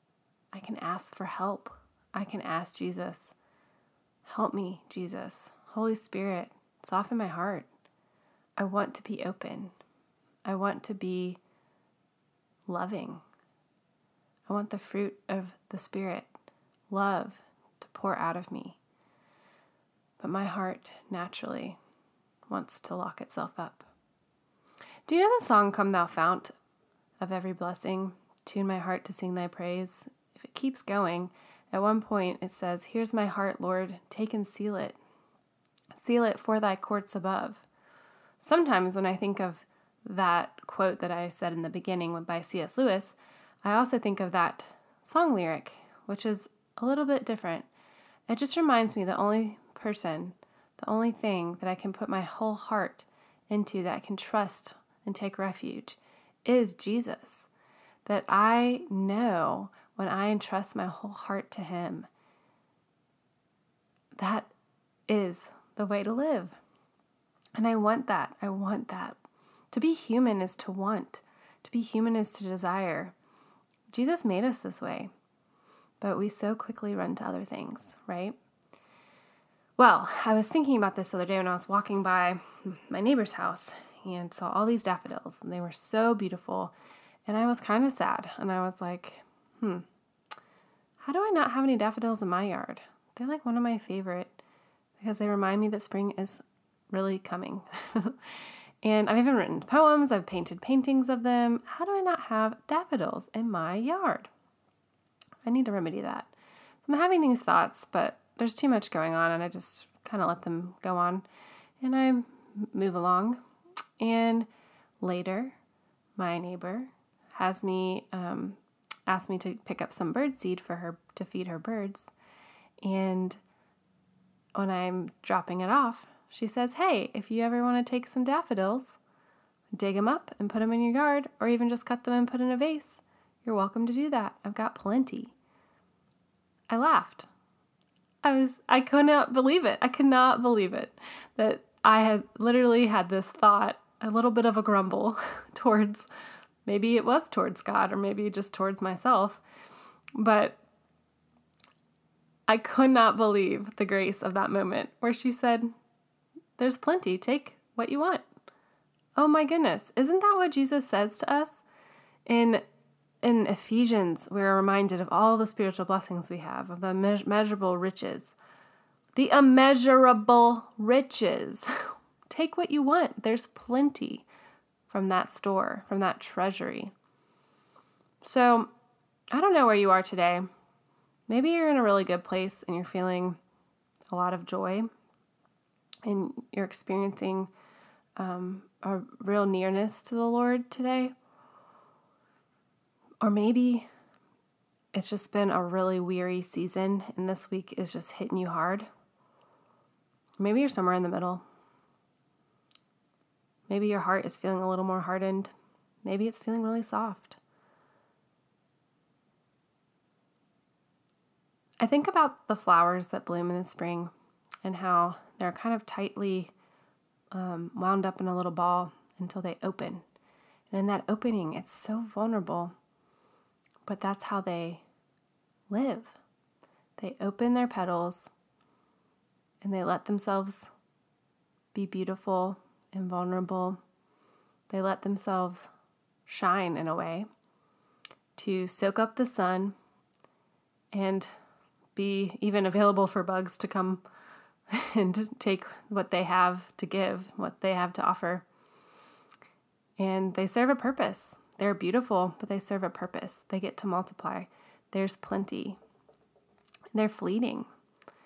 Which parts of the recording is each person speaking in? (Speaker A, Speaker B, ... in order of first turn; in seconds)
Speaker A: 0.5-3.4, 4.2-7.7, 8.6-9.8, 10.4-11.4, 12.7-13.2, 14.5-16.3, 16.9-18.8, 20.2-21.8, 22.5-23.9, 25.1-26.5, 27.2-35.0, 35.9-37.6, 38.4-47.7, 48.3-57.5, 58.0-62.1, 64.2-64.5, 65.1-66.6, 67.6-69.2, 69.7-73.1, 73.9-75.1, 76.0-78.4, 79.8-86.7, 87.2-89.9, 91.0-94.4, 95.0-98.2, 98.8-104.3, 105.4-106.3, 106.8-111.2, 111.8-113.4, 114.0-114.5, 115.0-115.6, 116.2-122.1, 122.8-123.4, 124.5-129.0, 129.8-135.3, 136.7-137.3, 138.2-146.1, 146.6-149.4, 150.1-150.6, 152.5-155.7, 156.6-158.3, 159.2-161.6, 162.2-162.6, 163.2-168.4, 169.1-171.7, 172.3-174.3, 174.9-176.9, 178.2-178.7, 179.3-180.5, 181.3-183.4, 184.1-184.9, 186.0-187.5, 188.2-191.1, 193.2-193.9, 194.9-198.9, 200.4-201.4, 203.7-205.5, 206.0-207.4, 211.8-214.1, 214.6-216.5, 217.3-220.0, 220.7-222.7, 223.8-224.8, 225.7-226.2, 227.0-228.3, 229.6-230.7, 231.7-233.8, 234.7-235.7, 236.2-237.3, 238.3-239.7, 240.9-241.3, 241.9-244.0, 244.7-248.4, 250.0-255.8, 256.9-257.7